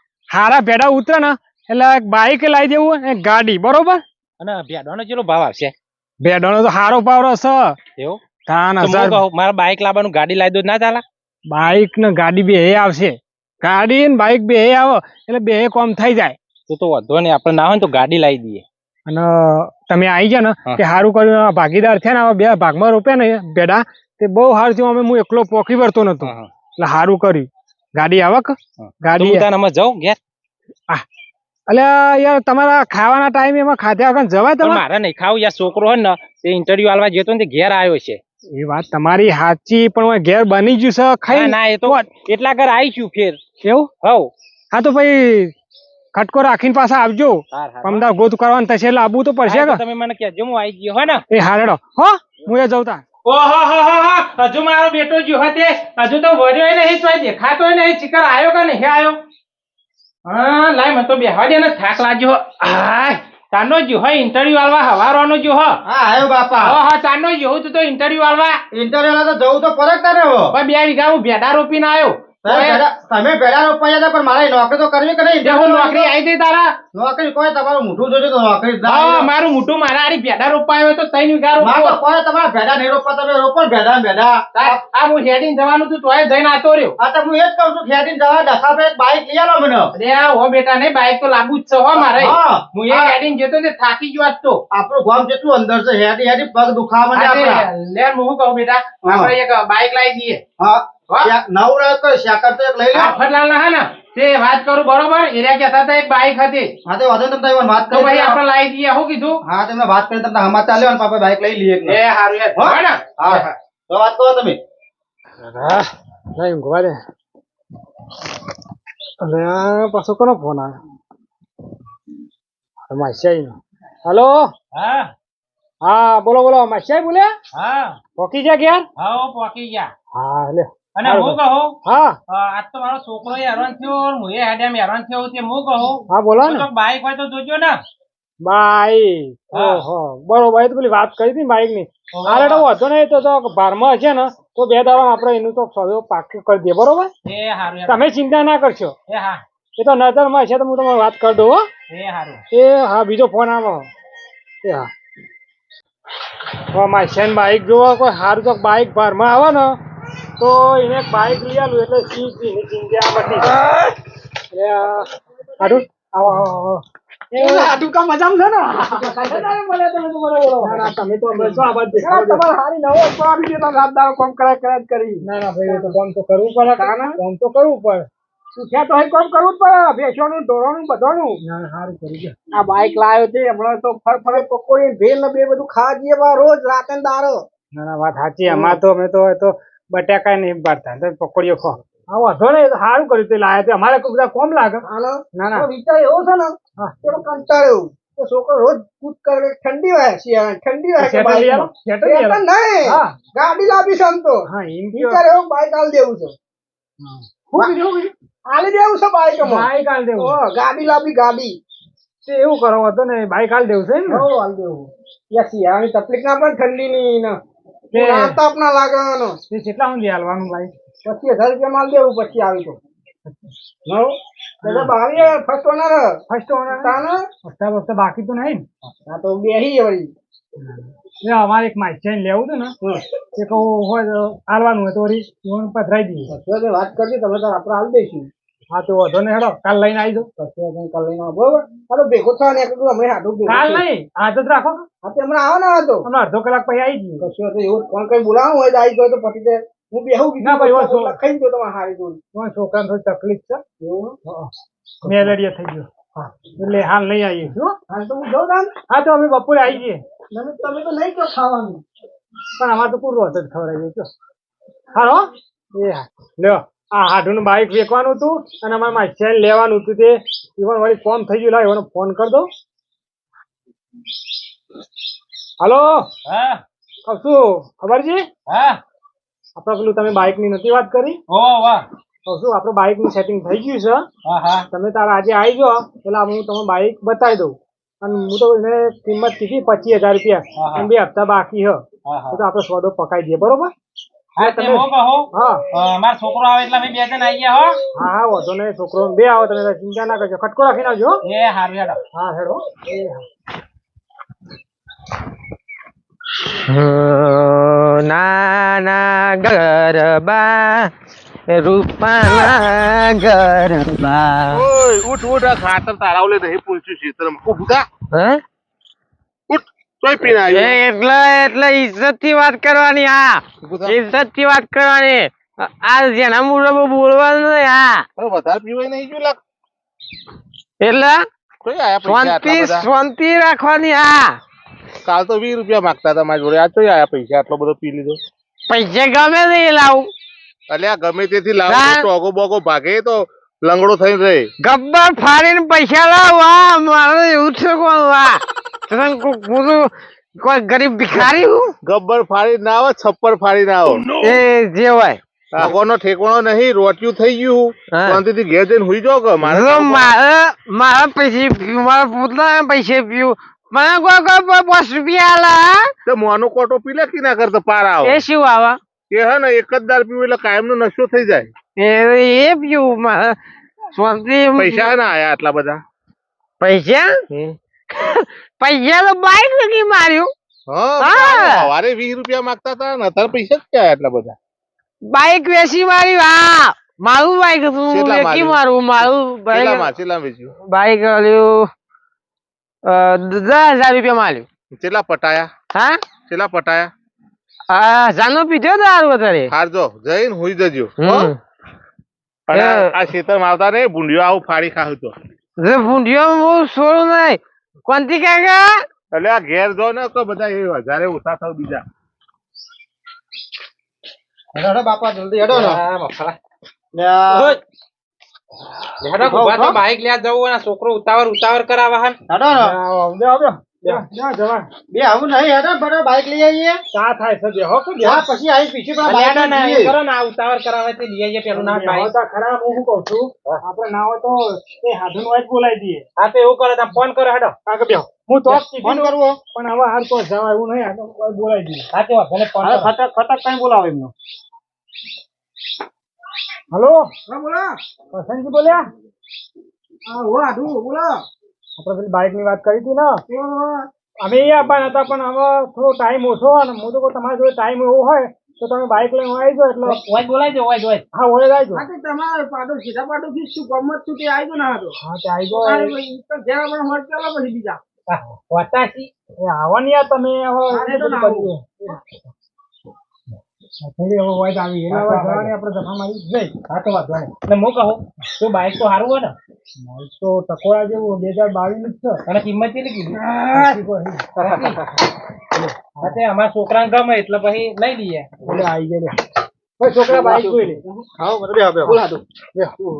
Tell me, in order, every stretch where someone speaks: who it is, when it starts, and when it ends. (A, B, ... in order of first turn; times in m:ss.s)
0:00.3-0:04.0 A
0:04.4-0:05.7 B
0:06.2-0:07.8 A
0:08.5-0:09.2 A
0:08.8-0:11.0 B
0:11.5-0:16.4 A
0:16.7-0:18.6 B
0:19.1-0:29.4 A
0:26.2-0:26.5 B
0:28.8-0:30.2 B
0:31.7-0:34.8 A
0:34.6-0:38.2 B
0:38.5-0:42.1 A
0:41.3-0:43.4 B
0:43.6-0:43.9 A
0:44.0-0:44.3 B
0:44.7-0:45.5 A
0:46.1-0:49.8 A
0:47.5-0:48.1 B
0:49.5-0:51.2 B
0:51.3-0:53.0 A
0:53.2-0:59.2 B
1:00.2-1:05.8 B
1:05.8-1:06.8 C
1:06.6-1:08.6 B
1:08.7-1:10.6 C
1:10.5-1:12.8 B
1:12.4-1:16.1 C
1:15.4-1:16.8 B
1:16.9-1:19.3 C
1:18.8-1:22.0 B
1:21.6-1:24.8 C
1:24.5-1:27.0 B
1:27.0-1:29.9 C
1:30.0-1:34.6 B
1:32.0-1:33.2 C
1:34.7-1:37.6 C
1:37.1-1:40.4 B
1:39.0-1:39.3 C
1:40.6-1:43.1 C
1:42.9-1:46.7 B
1:46.8-1:48.4 C
1:47.9-1:49.4 B
1:49.4-1:52.0 C
1:51.8-1:53.4 B
1:52.6-1:54.6 C
1:55.5-1:55.8 A
1:56.4-1:57.0 A
1:59.2-2:00.8 A
2:02.9-2:04.5 A
2:04.7-2:05.1 B
2:05.8-2:07.3 A
2:07.5-2:08.0 B
2:08.2-2:08.8 A
2:09.0-2:09.9 B
2:10.1-2:12.2 A
2:11.0-2:11.8 B
2:12.3-2:17.8 B
2:16.1-2:16.7 A
2:18.4-2:27.1 A
2:19.5-2:19.8 B
2:22.1-2:22.6 B
2:27.2-2:28.0 B
2:27.9-2:28.9 A
2:29.1-2:29.4 B
2:29.8-2:31.6 A
2:31.9-2:32.4 B
2:32.5-2:33.9 A
2:34.6-2:34.9 A
2:36.7-2:39.8 A
2:40.4-2:43.6 A
2:44.5-2:45.1 A
2:45.6-2:47.8 A
2:47.4-2:56.0 D
2:49.0-2:49.5 A
2:50.6-2:52.4 A
2:55.2-2:58.1 A
2:56.7-2:57.2 D
2:58.6-3:01.4 D
3:01.4-3:02.3 A
3:02.5-3:07.4 D
3:07.7-3:15.7 A
3:08.4-3:08.8 D
3:14.8-3:26.3 D
3:21.0-3:23.2 A
3:24.5-3:25.2 A
3:27.0-3:28.1 A
3:28.5-3:31.6 D
3:29.4-3:30.4 A
3:32.2-3:34.3 A
3:34.1-3:37.4 D
3:37.9-3:38.4 A
3:37.9-3:39.4 D
3:39.5-3:40.7 A
3:41.0-3:42.8 D
3:43.8-3:46.1 D
3:44.6-3:44.9 A
3:46.3-3:48.7 A
3:46.7-3:47.2 D
3:49.0-3:50.1 D
3:50.6-3:52.7 A
3:53.4-3:56.3 A
3:56.3-3:58.3 D
3:58.7-4:00.3 A
4:00.4-4:03.8 D
4:03.4-4:04.8 A
4:05.0-4:06.0 D
4:06.0-4:07.3 A
4:07.2-4:12.2 D
4:10.4-4:11.2 A
4:12.3-4:13.6 A
4:13.8-4:14.2 D
4:15.0-4:17.8 A
4:15.0-4:15.3 D
4:17.9-4:18.7 D
4:18.9-4:20.0 A
4:20.3-4:21.8 D
4:22.6-4:24.1 A
4:24.9-4:32.5 A
4:35.6-4:36.1 A
4:36.2-4:36.6 B
4:37.1-4:38.3 A
4:38.5-4:38.8 B
4:39.6-4:41.2 A
4:41.3-4:41.8 B
4:42.3-4:44.0 A
4:44.2-4:44.6 B
4:44.7-4:53.7 A
4:50.6-4:50.9 B
4:52.0-4:52.4 B
4:54.4-4:57.8 B
4:54.4-4:55.6 A
4:57.9-5:01.2 A
5:01.2-5:02.0 B
5:02.1-5:03.2 A
5:06.6-5:10.9 E
5:11.5-5:14.6 E
5:14.5-5:17.9 F
5:18.1-5:18.4 E
5:19.5-5:20.8 F
5:20.4-5:28.0 E
5:23.6-5:24.0 F
5:28.2-5:29.4 F
5:30.8-5:31.2 E
5:31.6-5:32.9 F
5:32.0-5:34.4 E
5:35.0-5:38.2 F
5:38.7-5:40.1 E
5:40.7-5:44.4 F
5:41.7-5:42.0 E
5:44.6-5:51.7 E
5:51.1-5:54.4 F
5:54.2-5:55.7 E
5:55.5-6:00.1 F
5:57.9-5:58.2 E
5:59.4-6:05.9 E
6:06.0-6:08.2 F
6:08.0-6:08.8 E
6:09.1-6:11.5 F
6:11.8-6:13.4 E
6:13.9-6:14.9 E
6:14.6-6:15.8 F
6:16.6-6:17.2 E
6:17.9-6:20.3 E
6:20.7-6:24.4 F
6:21.0-6:21.7 E
6:25.1-6:29.9 E
6:27.9-6:30.5 F
6:30.6-6:31.7 E
6:32.8-6:34.5 E
6:34.7-6:35.5 F
6:35.7-6:36.0 E
6:36.3-6:36.9 F
6:37.7-6:39.5 E
6:39.5-6:41.3 F
6:41.0-6:41.4 E
6:42.5-6:45.1 F
6:42.5-6:42.9 E
6:45.6-6:48.8 E
6:49.1-6:51.8 F
6:54.5-6:55.8 C
6:55.5-6:56.4 B
6:57.0-6:57.6 C
6:57.3-6:57.6 B
6:59.0-7:02.2 B
6:59.2-6:59.8 C
7:02.3-7:02.7 C
7:02.5-7:04.7 A
7:04.9-7:06.8 C
7:06.9-7:08.3 A
7:08.0-7:09.9 C
7:09.0-7:12.1 B
7:11.5-7:16.0 A
7:16.2-7:17.6 B
7:17.7-7:21.8 A
7:18.8-7:19.3 C
7:21.9-7:22.9 B
7:22.6-7:24.1 A
7:23.3-7:23.8 C
7:26.7-7:27.1 A
7:27.3-7:27.8 D
7:28.1-7:28.8 A
7:30.0-7:31.2 D
7:31.8-7:33.2 A
7:33.3-7:33.9 D
7:34.2-7:40.0 A
7:39.8-7:41.0 B
7:41.1-7:41.8 A
7:41.7-7:45.0 D
7:45.0-7:46.0 A
7:45.5-7:47.8 D
7:48.1-7:49.1 B
7:49.4-7:52.0 A
7:50.7-7:51.5 D
7:53.8-7:56.6 A
7:54.9-7:55.5 D
7:55.0-7:55.4 B
7:56.7-7:59.4 B
7:59.8-8:02.2 A
8:02.2-8:03.8 B
8:03.5-8:04.4 A
8:04.4-8:04.8 B
8:06.0-8:08.6 B
8:08.4-8:09.2 D
8:09.8-8:10.8 A
8:10.1-8:11.0 D
8:11.2-8:12.0 C
8:11.8-8:12.2 D
8:12.6-8:12.9 A